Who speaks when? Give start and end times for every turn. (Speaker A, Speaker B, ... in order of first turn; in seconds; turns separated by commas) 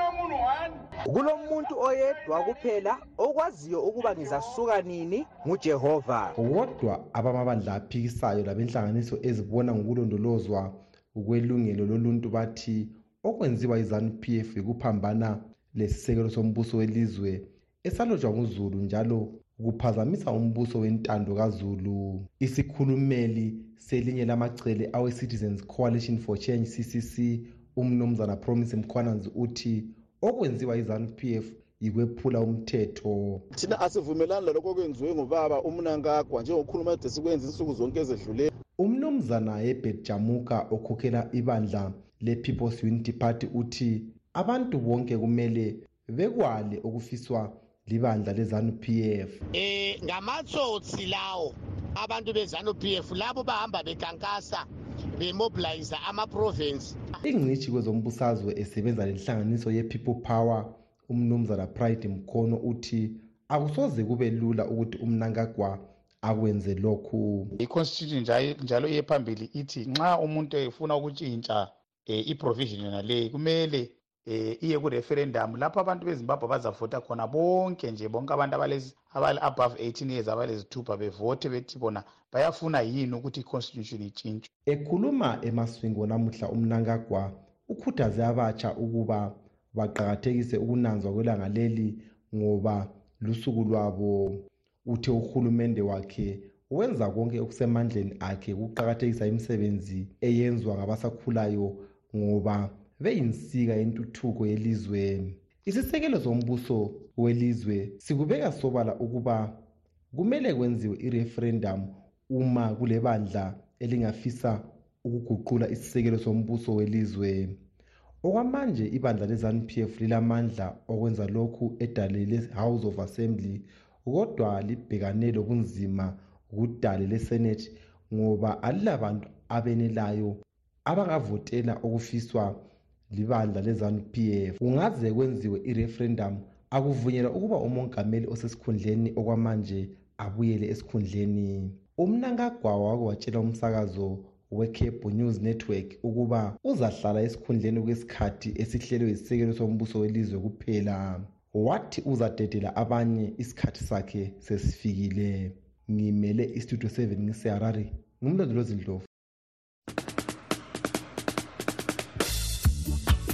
Speaker A: 1.1-6.3, Speaker B: 6.4-33.5, Speaker C: 33.5-38.5, Speaker B: 38.8-49.4, Speaker D: 49.5-57.1, Speaker B: 57.2-67.5, Speaker E: 67.6-84.5, Speaker B: 84.7-117.6, Speaker B: 118.2-159.1